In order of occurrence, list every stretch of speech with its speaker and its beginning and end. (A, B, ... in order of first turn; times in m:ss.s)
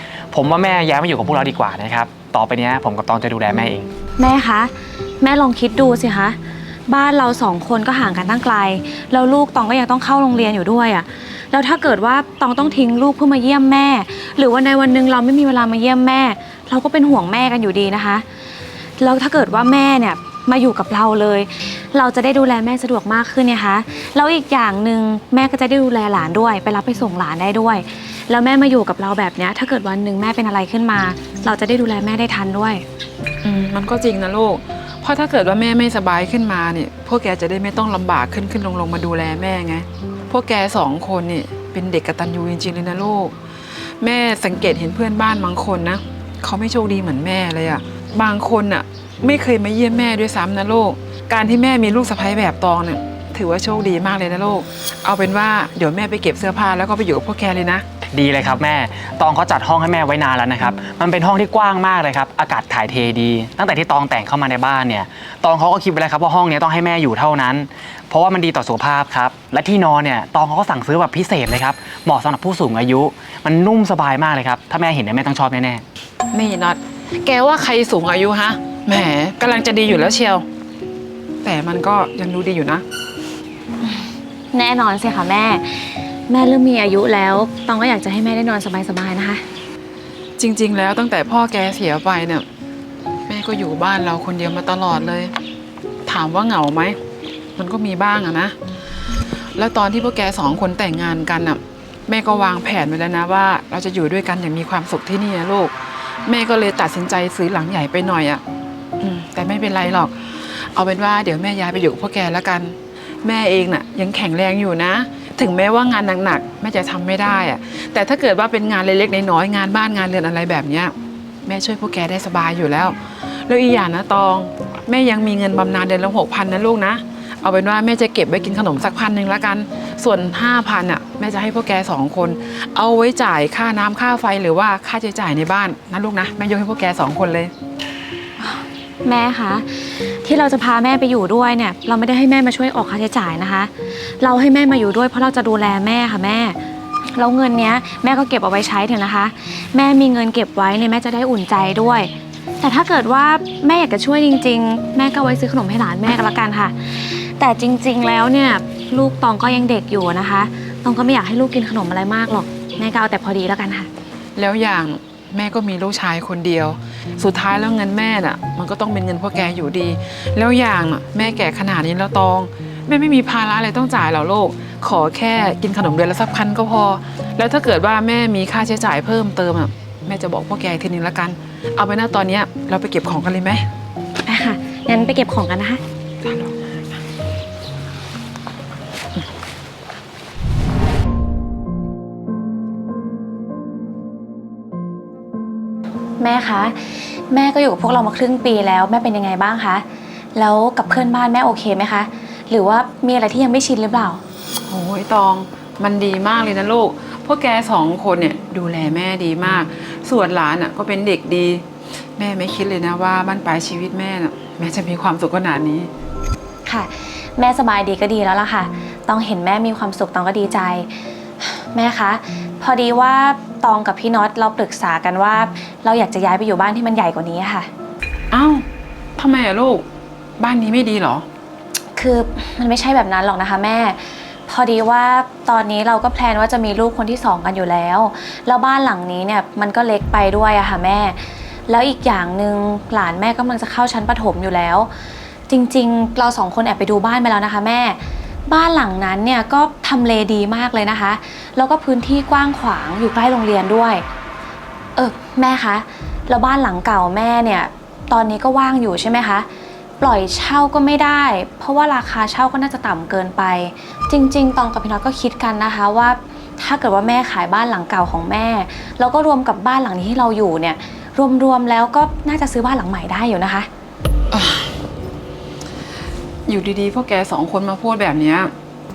0:00.3-0:03.9 A
0:04.2-0:18.2 B
0:19.0-0:32.8 B
0:33.4-0:57.8 C
0:58.1-1:15.8 A
1:16.3-1:20.4 C
1:21.4-1:22.8 C
1:23.8-1:29.4 B
1:30.4-1:32.4 C
1:33.3-1:35.3 C
1:36.1-1:37.0 C
1:37.6-1:38.6 C
1:39.6-1:48.4 C
1:49.0-2:17.5 C
2:18.4-2:26.6 B
2:27.1-2:43.9 B
2:44.4-3:03.7 C
3:04.2-3:05.8 B
3:06.2-3:06.9 C
3:16.2-3:24.2 B
3:24.7-3:31.6 C
3:32.2-3:35.9 C
3:36.7-3:47.7 B
3:48.3-3:48.7 C
3:49.2-3:49.8 C
3:50.4-3:51.2 C
3:52.0-4:04.9 B
4:05.5-4:14.0 B
4:15.0-4:19.5 B
4:20.0-4:33.7 B
4:34.3-4:34.8 C
4:36.5-4:38.5 C